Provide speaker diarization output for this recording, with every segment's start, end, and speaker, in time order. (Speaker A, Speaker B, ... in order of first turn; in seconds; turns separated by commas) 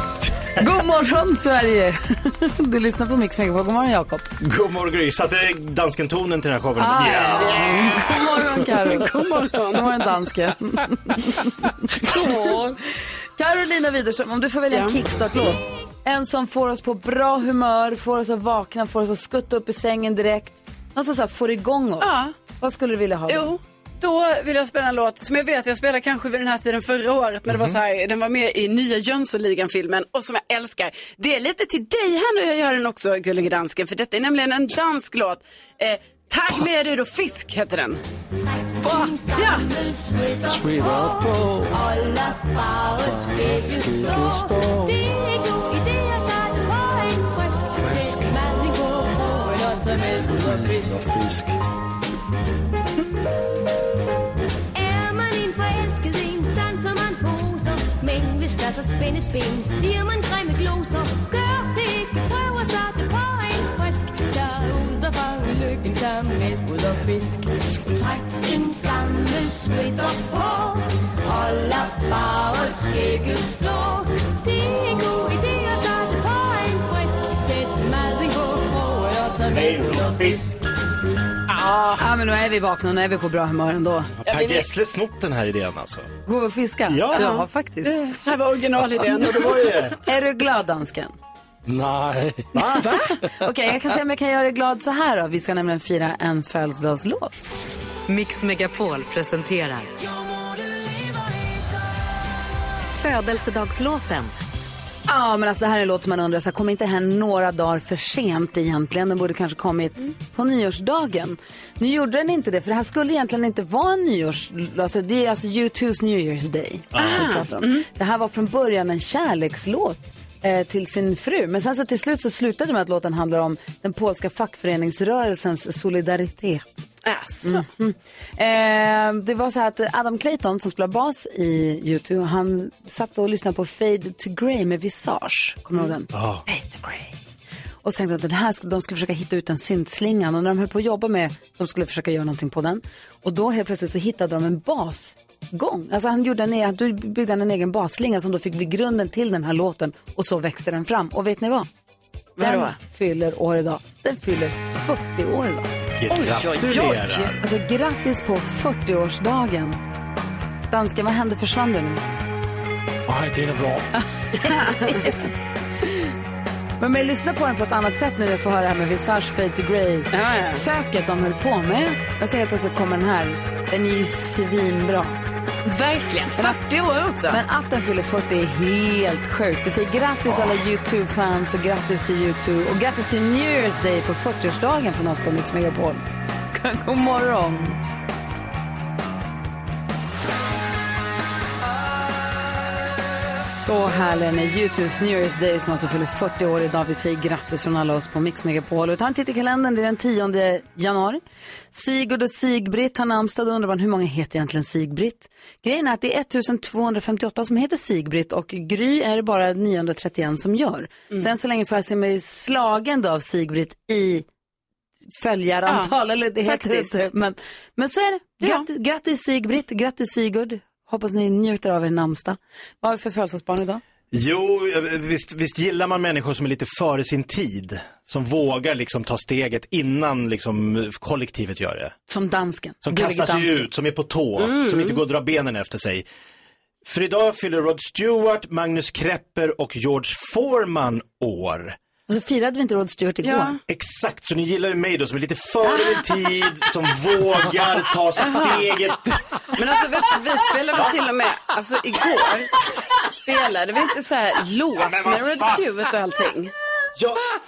Speaker A: 0.6-4.3, Speaker B: 4.4-8.4, Speaker A: 6.8-12.8, Speaker C: 7.4-8.2, Speaker C: 8.8-10.1, Speaker A: 13.4-23.5, Speaker C: 14.7-15.0, Speaker C: 22.0-22.4, Speaker C: 23.3-38.0, Speaker B: 27.5-27.8, Speaker D: 38.4-51.0, Speaker C: 38.8-39.7, Speaker E: 40.4-41.8, Speaker E: 43.0-45.0, Speaker E: 47.8-48.4, Speaker E: 50.3-51.6, Speaker D: 54.7-80.4, Speaker B: 79.5-80.5, Speaker A: 81.8-84.1, Speaker B: 84.2-86.1, Speaker C: 84.3-84.7, Speaker A: 86.3-88.0, Speaker B: 86.9-87.3, Speaker C: 87.2-89.8, Speaker B: 88.9-90.0, Speaker A: 90.0-91.2, Speaker E: 91.7-92.7, Speaker B: 92.5-92.9, Speaker A: 92.6-97.3, Speaker F: 98.1-99.9, Speaker F: 102.9-104.3, Speaker A: 105.1-126.9, Speaker B: 116.9-117.3, Speaker C: 117.0-117.9, Speaker C: 127.0-127.7, Speaker A: 127.4-137.2, Speaker B: 136.1-136.4, Speaker A: 137.8-151.7, Speaker C: 152.4-152.8, Speaker A: 152.4-155.7, Speaker B: 156.0-157.4, Speaker C: 156.1-157.3, Speaker A: 157.3-159.8, Speaker A: 160.7-162.0, Speaker E: 163.1-163.9, Speaker A: 164.3-165.2, Speaker A: 166.8-175.2, Speaker C: 170.1-170.6, Speaker C: 175.7-177.4, Speaker A: 177.3-187.8, Speaker A: 193.4-214.3, Speaker A: 215.2-223.8, Speaker C: 215.7-217.1, Speaker C: 218.4-218.7, Speaker B: 224.1-231.9, Speaker A: 232.1-233.7, Speaker B: 232.8-236.1, Speaker C: 234.4-235.0, Speaker B: 236.8-241.8, Speaker A: 242.1-243.6, Speaker C: 243.2-243.6, Speaker B: 243.7-249.4, Speaker C: 248.2-248.7, Speaker C: 249.5-252.6, Speaker C: 253.1-256.5, Speaker B: 254.9-255.5, Speaker B: 257.0-257.3